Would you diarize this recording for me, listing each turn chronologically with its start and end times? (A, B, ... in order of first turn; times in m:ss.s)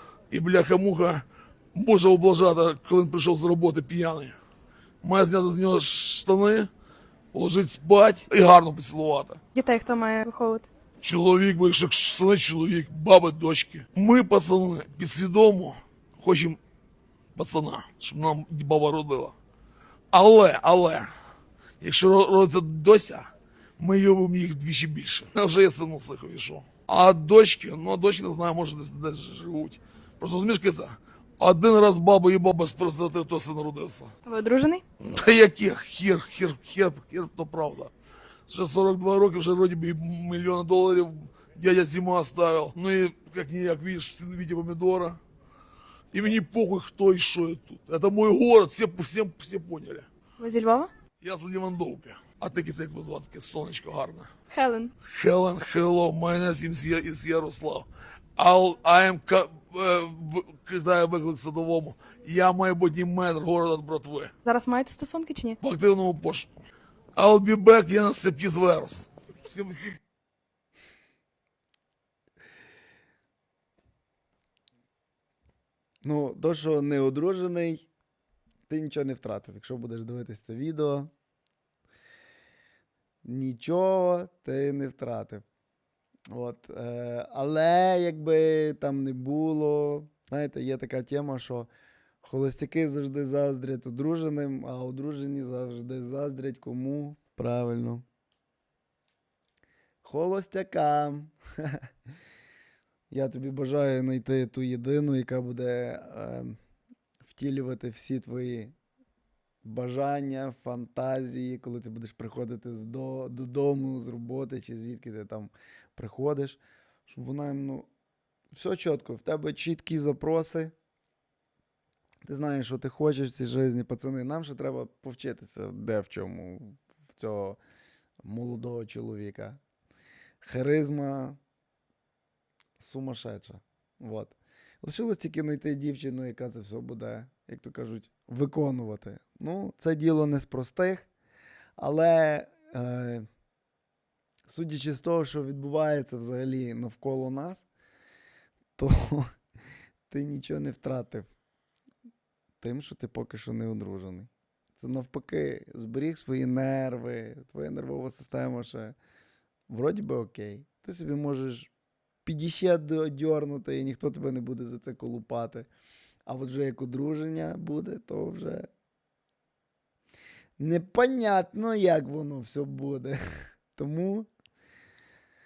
0:00.3-0:01.2 A
0:01.8-0:04.4 A
0:05.0-0:06.7 A
0:07.3-0:09.4 A
0:09.6-0:10.7 B
0:11.0-0:16.6 A
0:17.4-0:19.4 A
0:20.1-0:21.1 A
0:21.8-0:34.1 A
0:34.2-0:34.8 B
0:35.0-0:37.9 A
0:38.5-0:45.2 A
0:46.1-0:50.1 A
0:50.4-0:50.9 B
0:51.2-0:54.3 A
0:54.5-0:54.9 B
0:55.0-1:04.3 A
1:04.4-1:05.6 B
1:05.6-1:06.6 A
1:07.2-1:10.0 A
1:16.0-1:17.9 C
1:18.7-1:21.1 C
1:23.2-1:25.4 C
1:26.3-1:31.7 C
1:32.2-1:38.0 C
1:40.0-1:41.9 C
1:43.1-1:46.6 C
1:47.2-1:48.7 C
1:49.6-1:57.9 C
1:58.5-2:00.7 C
2:02.2-2:07.6 C
2:08.2-2:09.6 C
2:10.4-2:11.4 C
2:12.8-2:21.1 C
2:21.8-2:23.3 C
2:24.5-2:27.7 C
2:28.8-2:29.3 C
2:30.1-2:31.3 C
2:32.6-2:39.0 C
2:39.7-2:41.7 C
2:42.2-2:45.7 C
2:46.3-2:48.7 C
2:50.6-2:54.3 C